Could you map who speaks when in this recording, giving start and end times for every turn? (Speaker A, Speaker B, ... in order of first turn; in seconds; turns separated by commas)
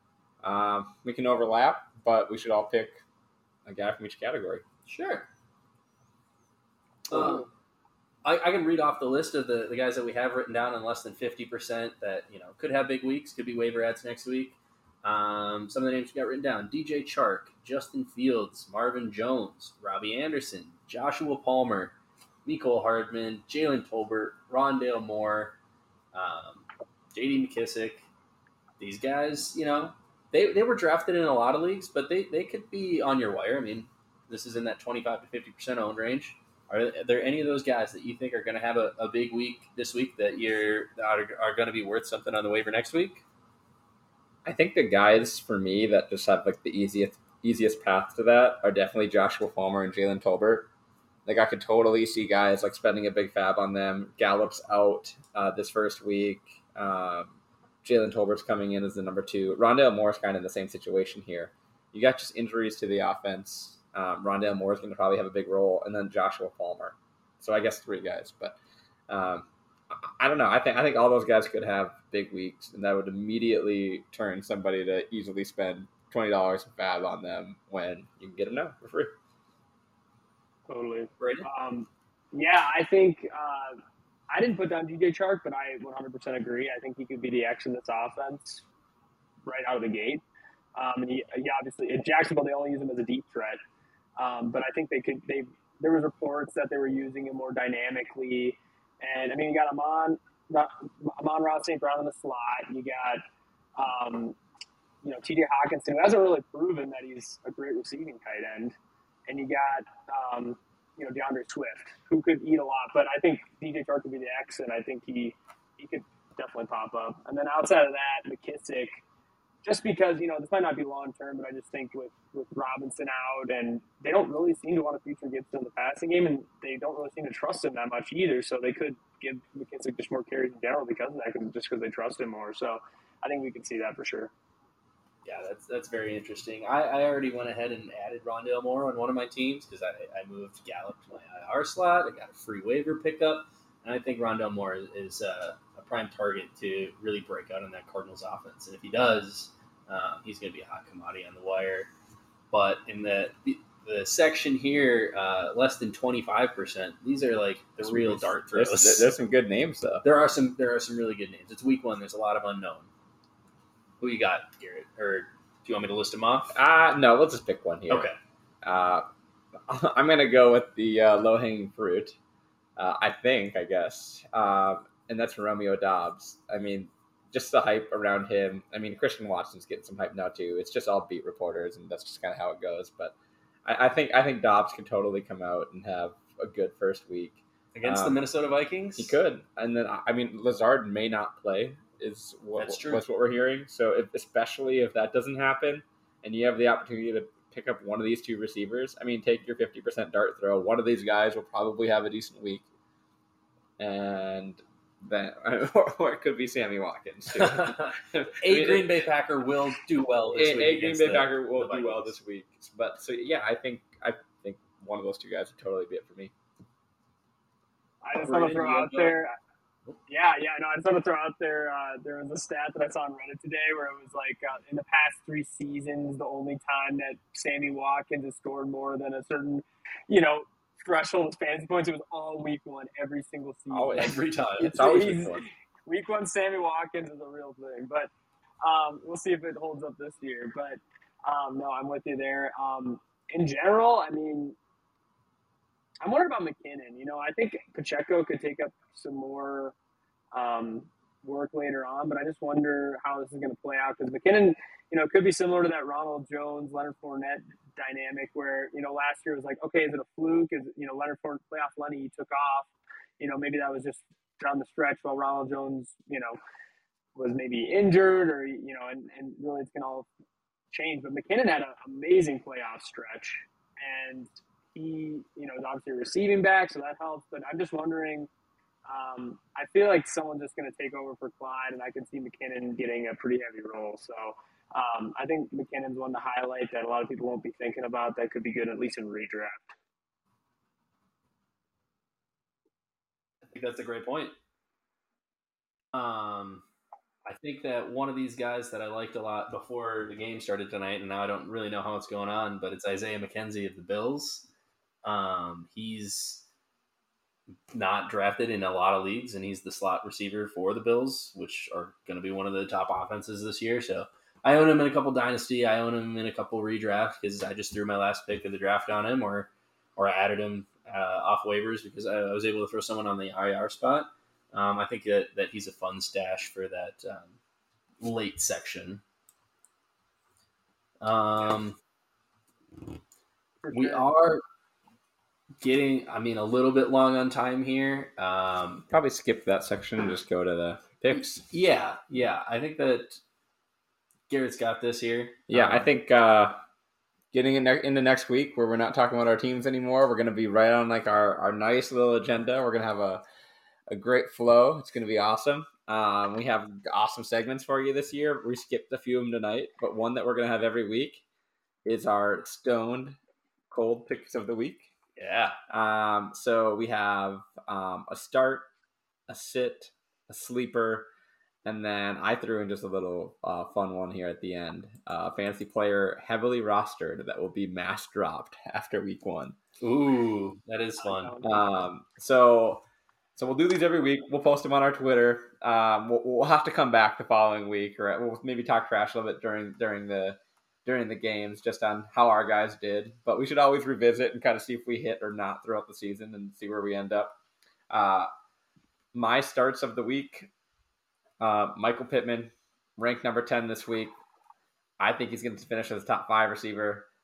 Speaker A: 0.4-3.0, Speaker A: 3.6-4.6, Speaker B: 4.8-5.3, Speaker B: 7.1-7.5, Speaker B: 8.2-25.6, Speaker B: 26.1-28.1, Speaker B: 28.8-43.2, Speaker A: 44.4-50.7, Speaker A: 51.2-68.6, Speaker A: 69.1-79.1, Speaker C: 80.7-88.6, Speaker B: 81.2-81.5, Speaker C: 89.4-90.2, Speaker C: 90.8-93.6, Speaker C: 94.2-103.2, Speaker C: 103.8-104.4, Speaker C: 105.0-108.8, Speaker C: 109.3-119.0, Speaker C: 119.6-134.3, Speaker B: 135.2-151.9, Speaker B: 152.5-159.1, Speaker A: 157.8-160.0, Speaker B: 160.0-162.9, Speaker B: 164.0-166.5, Speaker A: 166.5-168.1, Speaker B: 167.9-168.2, Speaker A: 168.6-169.1, Speaker A: 169.7-172.2, Speaker A: 172.8-183.1, Speaker A: 183.7-188.2, Speaker B: 187.7-189.1, Speaker A: 189.0-202.6, Speaker B: 192.6-193.0, Speaker A: 203.8-209.0, Speaker B: 207.3-212.1, Speaker A: 210.3-216.3, Speaker C: 218.0-219.3, Speaker A: 218.3-219.0, Speaker B: 218.3-219.1, Speaker C: 220.1-238.1, Speaker A: 233.7-235.4, Speaker B: 234.0-235.0, Speaker C: 238.6-244.6, Speaker C: 246.0-249.7, Speaker C: 250.3-262.7, Speaker C: 263.2-266.4, Speaker C: 267.1-270.1, Speaker C: 270.7-278.3, Speaker C: 278.9-289.7, Speaker B: 293.5-294.4, Speaker B: 295.9-296.6, Speaker B: 297.2-304.4, Speaker B: 305.0-306.4, Speaker B: 307.7-327.4, Speaker B: 328.0-329.0, Speaker B: 331.0-331.8, Speaker C: 333.6-334.1, Speaker B: 333.7-334.4, Speaker B: 335.6-338.8, Speaker A: 338.9-341.4, Speaker B: 341.1-343.2, Speaker B: 344.3-345.9, Speaker A: 345.5-346.6, Speaker A: 347.3-353.2, Speaker A: 353.9-361.2, Speaker A: 361.8-363.2, Speaker A: 363.7-364.9, Speaker B: 365.1-365.6, Speaker A: 365.7-368.7, Speaker A: 369.3-371.1, Speaker A: 371.6-379.6, Speaker B: 379.8-381.4, Speaker C: 381.0-381.5, Speaker A: 381.4-382.8, Speaker A: 383.4-397.4, Speaker A: 397.9-398.3, Speaker A: 399.1-400.5, Speaker A: 401.4-404.1, Speaker A: 405.0-407.1